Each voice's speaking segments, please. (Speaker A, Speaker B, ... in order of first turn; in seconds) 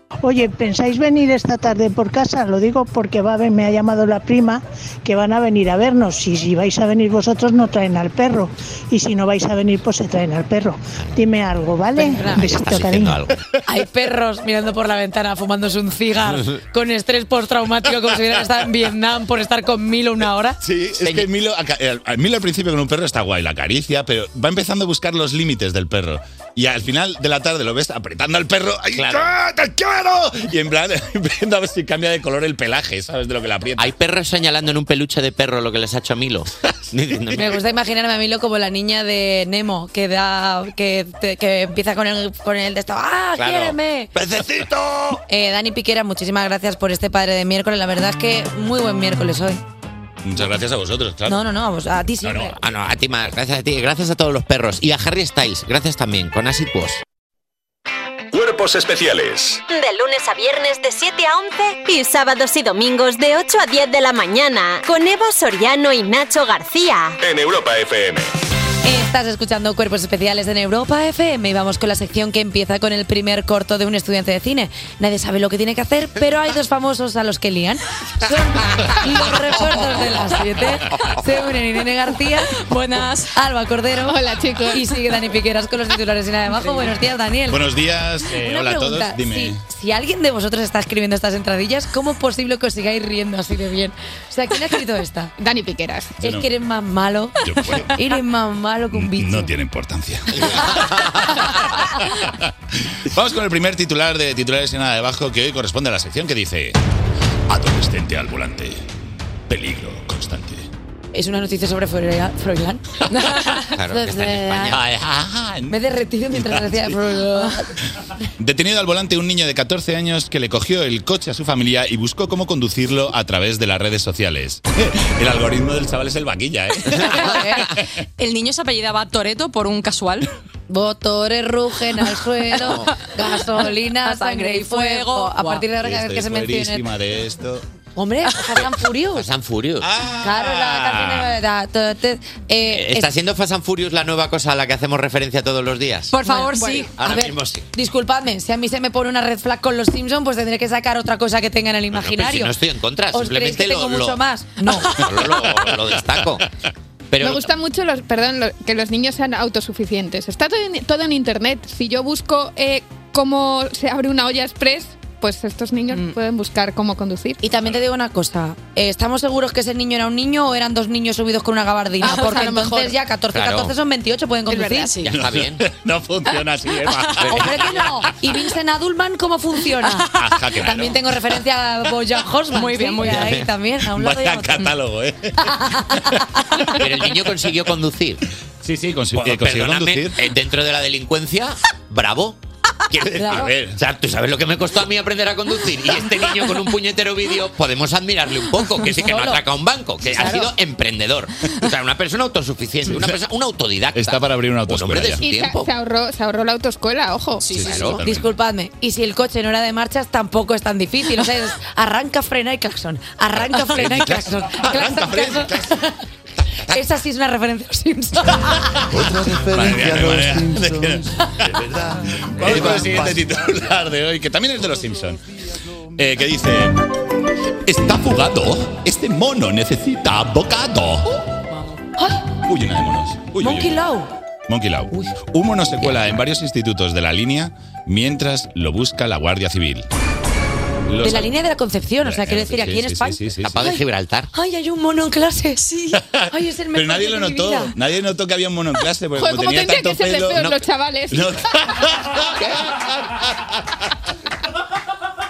Speaker A: 0.2-13.2
Speaker B: 12.0-12.5, 13.7-20.6, 37.3-44.1, 45.3-49.6, 51.3-52.6, 68.8-87.6, 88.3-95.3, 96.2-99.5, 111.1-114.8, 115.7-117.7, 127.0-127.7, 130.7-136.9, 138.0-139.2, 140.2-143.1, 146.2-152.5, 153.1-155.0, 167.4-175.0, 177.2-184.7, 185.4-186.2, 193.2-193.5, 198.8-199.4, 200.1-200.5, 208.0-216.0, 216.7-218.7, 232.0-232.2, 233.4-234.1, 241.0-243.8, 244.3-247.7
Speaker C: 12.3-13.4, 21.0-21.3, 28.9-29.3, 33.8-37.6, 43.4-45.2, 52.5-57.0, 113.6-114.8, 132.6-132.9, 139.1-139.9, 142.7-146.2, 146.9-147.7, 151.9-154.2, 154.7-156.5, 157.1-157.5, 173.3-173.7, 175.0-175.7, 183.0-183.5, 186.7-188.2, 189.2-192.4, 192.9-205.7, 207.6-208.0, 222.5-222.8, 243.4-244.3
Speaker D: 20.6-33.9, 44.4-44.8, 50.2-51.4, 52.2-52.5, 87.5-89.6, 96.2-96.5, 97.4-98.0, 98.9-106.8, 107.5-108.9, 109.5-110.7, 114.7-115.8, 116.3-117.2, 118.4-127.4, 135.8-137.7, 139.8-141.4, 175.0-178.0, 180.1-181.0, 183.8-186.4, 188.6-190.2, 193.2-193.8, 203.9-205.2, 207.4-208.3, 213.5-215.8, 218.5-225.2, 225.9-226.9, 227.7-231.3, 232.4-233.8, 234.5-239.9, 240.9-241.4, 242.0-243.7, 245.9-253.6
Speaker E: 58.3-59.6, 67.2-68.3
Speaker F: 59.7-67.2
Speaker G: 82.6-83.3, 127.3-130.3, 134.0-135.7, 146.1-146.9, 172.0-172.9, 174.5-175.1, 182.5-183.4, 207.5-207.7
Speaker H: 84.1-84.9, 95.4-96.2, 157.2-167.4, 205.2-207.5, 249.2-251.3